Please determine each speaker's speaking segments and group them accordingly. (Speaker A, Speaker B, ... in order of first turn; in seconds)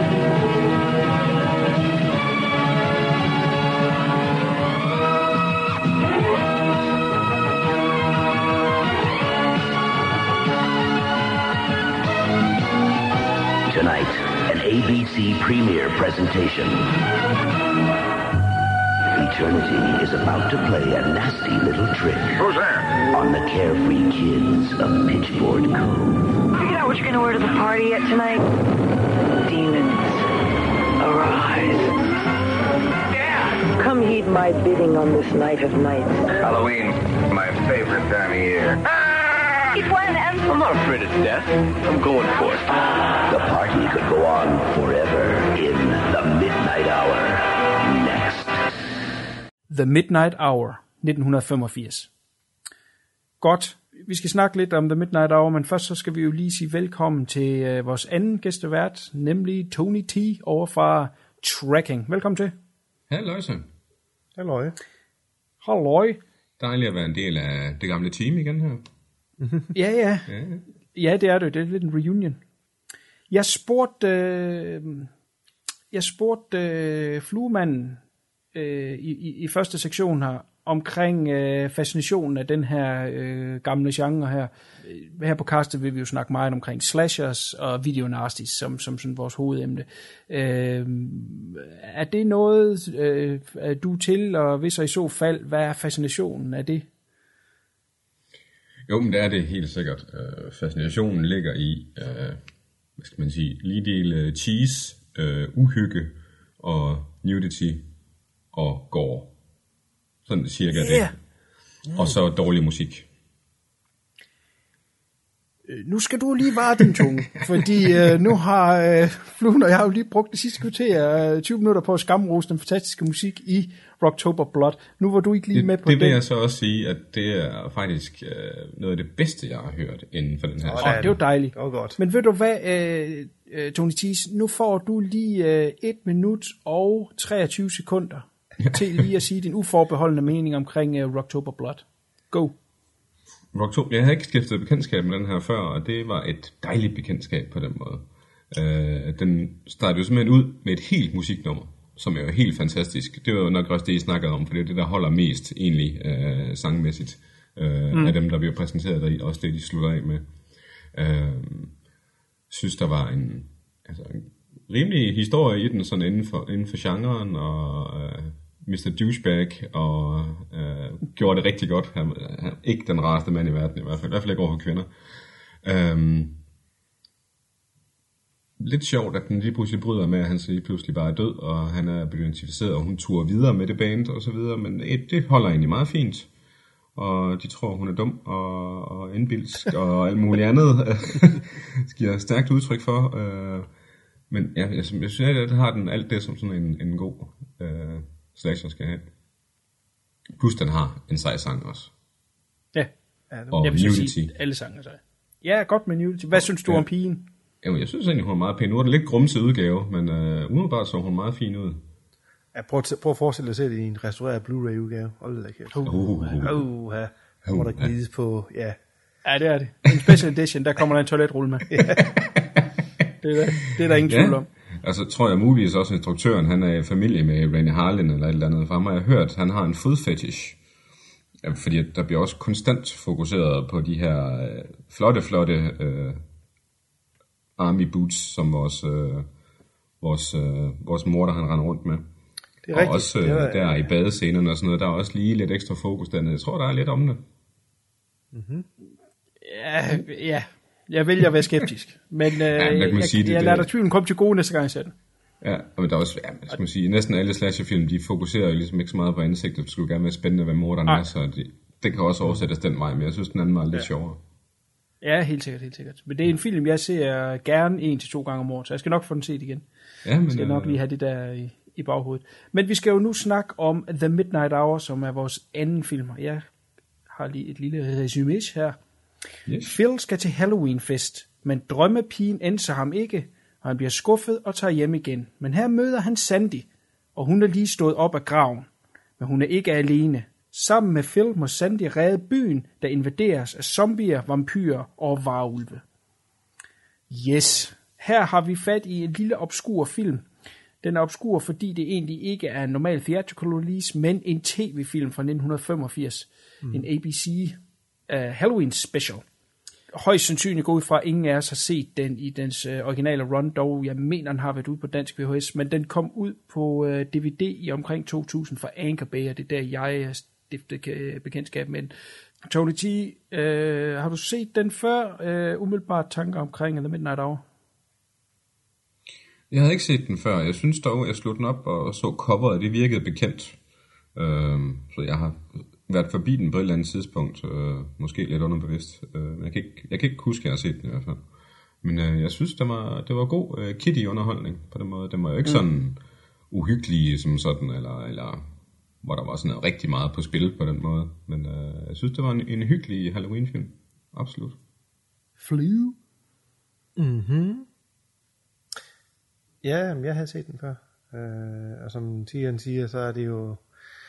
Speaker A: 13.7-16.9, 19.1-22.4, 23.1-26.2, 43.3-48.6
Speaker B: 22.4-22.8, 36.4-38.8, 40.5-42.8
Speaker C: 26.6-28.5, 29.4-30.2, 31.0-31.9, 33.7-36.3, 39.7-40.7
Speaker D: 49.7-52.1, 53.4-62.5, 65.6-66.2, 69.7-70.3, 70.9-72.4, 73.3-75.1, 75.9-78.0, 78.5-96.9, 110.7-111.1, 115.7-126.2, 130.8-142.5, 203.6-207.2, 215.7-216.1, 219.2-221.8, 223.2-224.5, 249.4-254.9, 265.0-269.6, 270.3-276.5, 277.1-278.8, 279.6-295.8, 297.1-300.2, 300.8-307.6, 308.1-309.2, 309.9-321.9, 322.5-327.4, 355.4-356.0
Speaker E: 63.1-63.7, 66.6-68.8, 70.3-70.6, 98.9-102.4, 103.0-107.9, 108.5-109.3, 110.2-111.2, 111.9-113.1, 125.5-131.2, 143.5-161.8, 162.5-174.9, 175.6-176.4, 178.6-186.3, 186.9-193.7, 194.3-199.1, 200.4-201.9, 203.5-204.3, 206.3-206.8, 207.6-211.8, 215.8-216.6, 217.5-217.9, 224.0-230.6, 231.4-236.2, 237.6-239.3, 240.0-242.1, 242.7-247.2, 252.5-253.7, 255.4-264.2, 270.0-270.8, 279.5-279.8, 329.5-333.6, 334.1-341.2, 341.8-348.4, 349.0-354.6
Speaker F: 64.3-64.8, 69.4-69.7, 130.6-132.0, 203.3-203.8, 212.5-218.8, 221.7-222.2, 242.6-243.9, 248.3-248.7, 356.9-357.7, 359.6-363.6